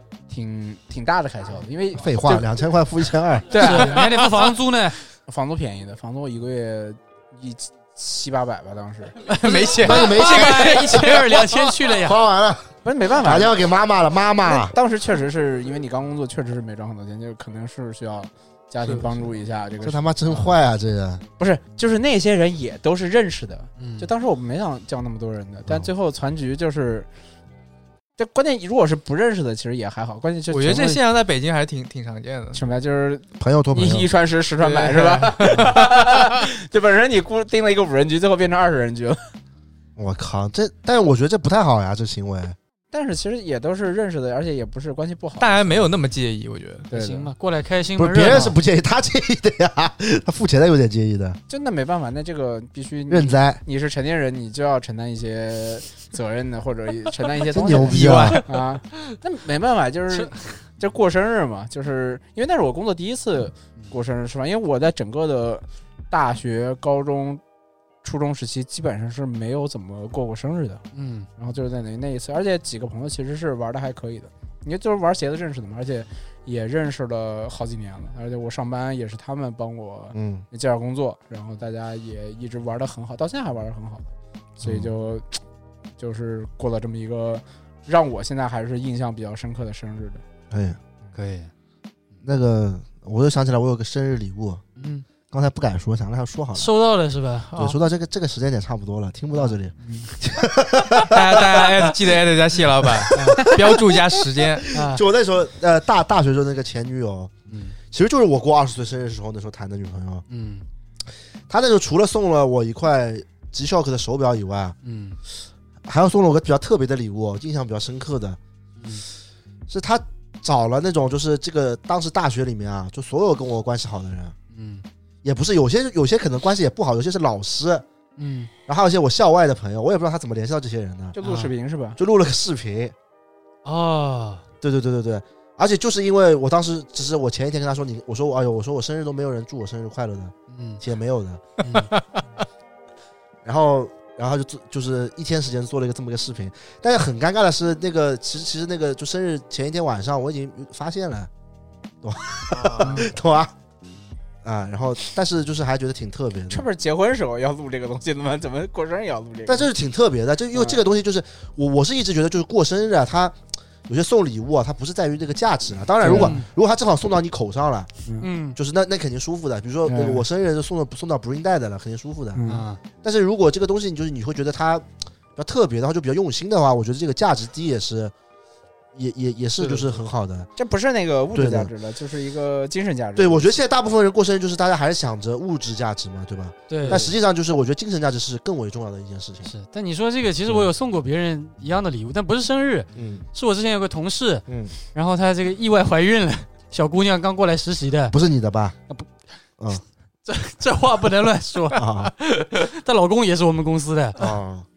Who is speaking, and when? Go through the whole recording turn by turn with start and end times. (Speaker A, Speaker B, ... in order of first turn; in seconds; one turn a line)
Speaker A: 0.3-2.5
Speaker B: 2.0-3.7
Speaker C: 3.5-5.0
Speaker A: 3.5-4.0
Speaker D: 3.9-4.5
Speaker A: 5.3-9.2
Speaker D: 9.2-11.7
Speaker B: 9.8-11.0
Speaker C: 9.8-12.2
Speaker B: 11.9-12.7
Speaker A: 12.8-13.6
Speaker B: 13.2-14.8
Speaker A: 14.5-20.4
Speaker D: 18.8-19.1
Speaker B: 19.8-21.2
Speaker A: 21.4-27.1
Speaker C: 23.8-24.1
Speaker A: 28.2-31.0
Speaker D: 30.5-32.6
Speaker A: 32.5-39.2
Speaker B: 33.4-34.1
Speaker D: 34.6-36.4
Speaker B: 40.0-42.6
Speaker A: 42.9-45.9
Speaker D: 45.4-46.9
Speaker A: 46.9-47.3
Speaker C: 46.9-48.6
Speaker B: 48.0-51.4
Speaker A: 51.5-67.4
Speaker B: 53.1-53.6
Speaker B: 57.5-58.4
Speaker D: 57.8-58.5
Speaker A: 68.0-70.8
Speaker C: 70.9-71.3
Speaker A: 71.4-84.1
Speaker B: 80.1-80.5
Speaker A: 84.6-85.4
Speaker B: 84.6-84.9
Speaker A: 86.0-90.2
Speaker B: 90.5-90.8
Speaker C: 91.1-91.5
Speaker B: 92.2-94.6
Speaker C: 94.8-95.0
Speaker B: 95.3-96.7
Speaker C: 96.5-97.5
Speaker B: 97.5-101.9
Speaker C: 99.4-100.1
Speaker D: 101.1-104.7
Speaker C: 103.1-103.4
Speaker B: 103.3-103.6
Speaker B: 104.7-107.3
Speaker C: 104.7-105.0
Speaker C: 107.5-107.8
Speaker B: 107.9-110.2
Speaker C: 110.3-110.7
Speaker B: 111.5-114.8
Speaker C: 114.8-115.2
Speaker B: 115.9-118.4
Speaker C: 118.8-119.0
Speaker B: 119.7-124.3
Speaker C: 124.5-124.8
Speaker B: 125.2-127.8
Speaker C: 128.2-128.5
Speaker B: 128.7-131.2
Speaker A: 131.2-132.0
Speaker C: 131.2-131.5
Speaker B: 132.0-132.9
Speaker C: 133.7-134.4
Speaker B: 134.6-141.5
Speaker C: 140.5-140.8
Speaker C: 141.6-141.9
Speaker B: 143.4-151.3
Speaker B: 152.0-153.5
Speaker D: 152.5-153.1
Speaker B: 154.4-156.7
Speaker A: 156.5-159.7
Speaker B: 159.5-167.9
Speaker A: 160.5-160.8
Speaker A: 166.0-166.4
Speaker C: 166.0-166.5
Speaker C: 168.2-168.6
Speaker B: 168.6-172.4
Speaker A: 169.9-170.2
Speaker A: 172.3-172.7
Speaker C: 172.5-172.8
Speaker B: 173.0-178.1
Speaker B: 178.9-180.5
Speaker A: 180.6-183.5
Speaker B: 181.3-181.7
Speaker B: 183.2-189.5
Speaker C: 186.7-187.1
Speaker A: 186.9-187.1
Speaker C: 189.4-198.2
Speaker B: 192.9-193.3
Speaker B: 194.5-194.7
Speaker B: 198.1-198.8
Speaker C: 200.3-204.3
Speaker B: 201.7-202.1
Speaker B: 204.2-204.7